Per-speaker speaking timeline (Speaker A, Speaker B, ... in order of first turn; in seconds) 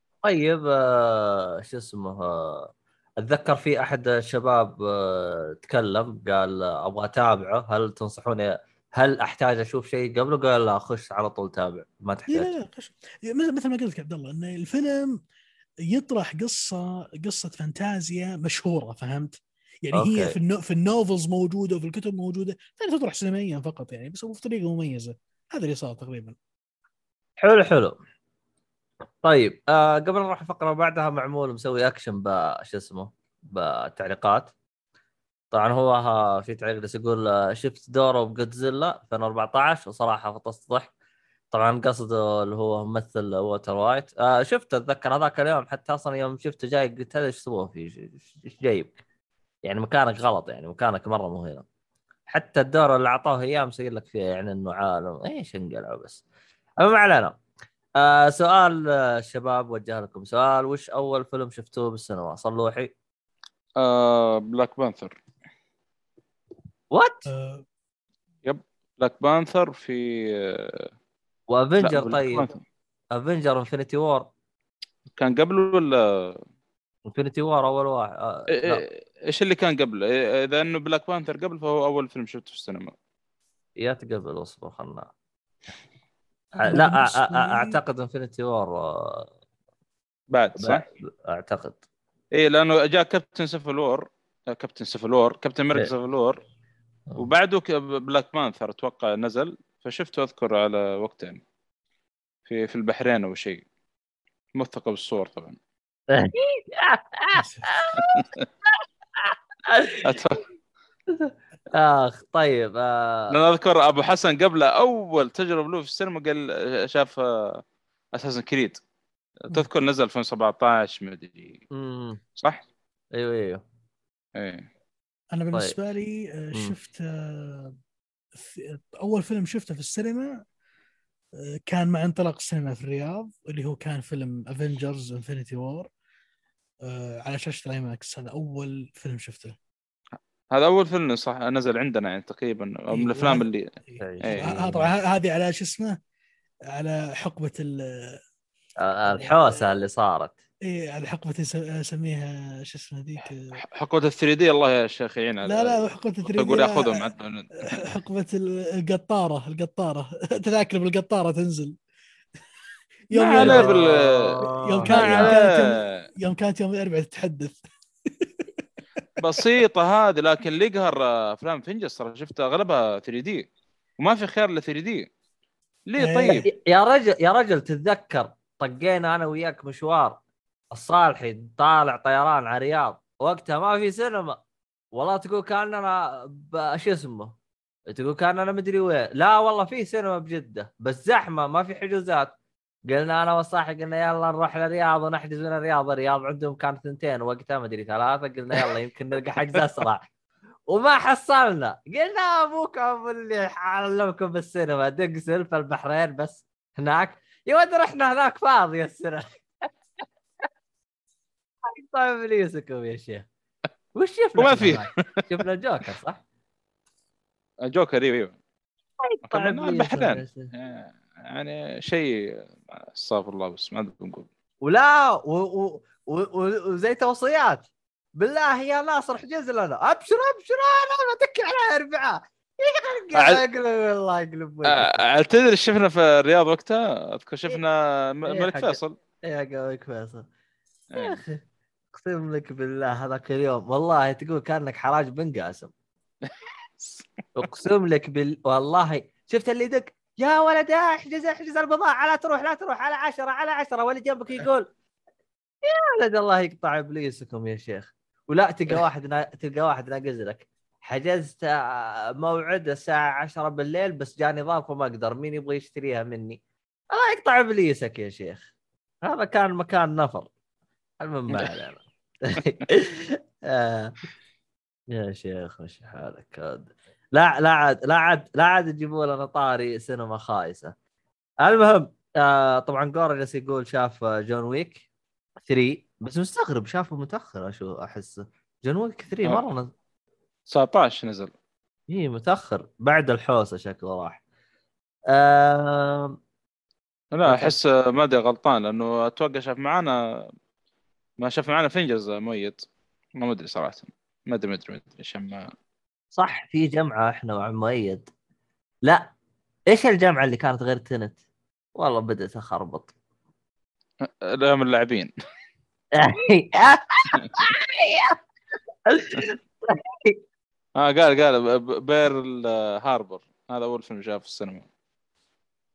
Speaker A: 0.2-12.5, 19.9-20.4, 27.4-28.0, 29.2-34.5, 35.5-40.9, 41.5-48.9, 49.6-51.6, 52.3-56.2, 56.8-57.4, 58.0-62.9, 66.9-67.3, 71.5-72.5, 73.1-74.3, 77.1-78.8, 83.8-85.1, 86.5-89.3, 90.6-91.8, 106.1-108.2, 109.3-110.1, 111.1-113.4, 121.7-122.2, 123.1-123.6, 144.0-144.9, 148.8-150.3, 163.4-165.3, 176.3-180.2, 180.7-184.4, 184.9-187.3, 187.9-192.3, 192.9-200.1, 200.7-209.7, 211.7-213.3, 213.9-216.2, 219.0-220.5, 224.6-234.9, 238.3-240.3, 241.0-241.4, 241.9-245.7, 247.4-254.7, 255.7-266.4, 266.9-268.5, 269.1-270.3, 271.0-273.9, 274.9-280.8, 281.4-284.8, 285.4-289.7, 291.9-294.2, 295.1-296.2, 297.2-297.6, 306.1-308.1, 308.9-309.1, 309.7-311.2, 311.8-312.9, 316.0-318.2, 318.9-320.2
Speaker B: 12.3-15.2, 15.9-26.4, 67.3-67.7, 86.7-87.8, 107.4-107.7, 125.3-127.8, 128.3-130.4, 131.4-135.9, 136.8-139.6, 142.9-146.0, 146.7-148.2, 149.1-149.8, 150.7-153.5, 155.4-157.1, 157.7-161.8, 163.1-163.8, 164.4-169.0, 176.0-176.5
Speaker C: 63.8-65.2, 68.5-70.9, 71.8-72.5, 75.2-76.4, 78.6-82.9, 90.3-90.8, 92.4-96.4, 97.2-101.4, 102.5-103.6, 104.6-105.6, 108.0-108.3, 110.0-110.4, 113.3-117.6, 118.2-118.8, 119.5-121.6, 122.4-122.6, 124.4-124.7, 140.5-143.7, 144.2-144.5, 153.6-157.9, 163.1-166.1, 169.2-173.5, 174.0-175.1, 175.9-176.4, 214.4-215.2, 217.7-218.4, 219.3-224.3, 233.2-233.4, 234.7-239.0, 240.9-241.2, 246.3-247.1, 290.5-291.3, 297.1-300.0, 301.2-302.6, 303.2-305.5, 314.1-315.1, 320.8-324.7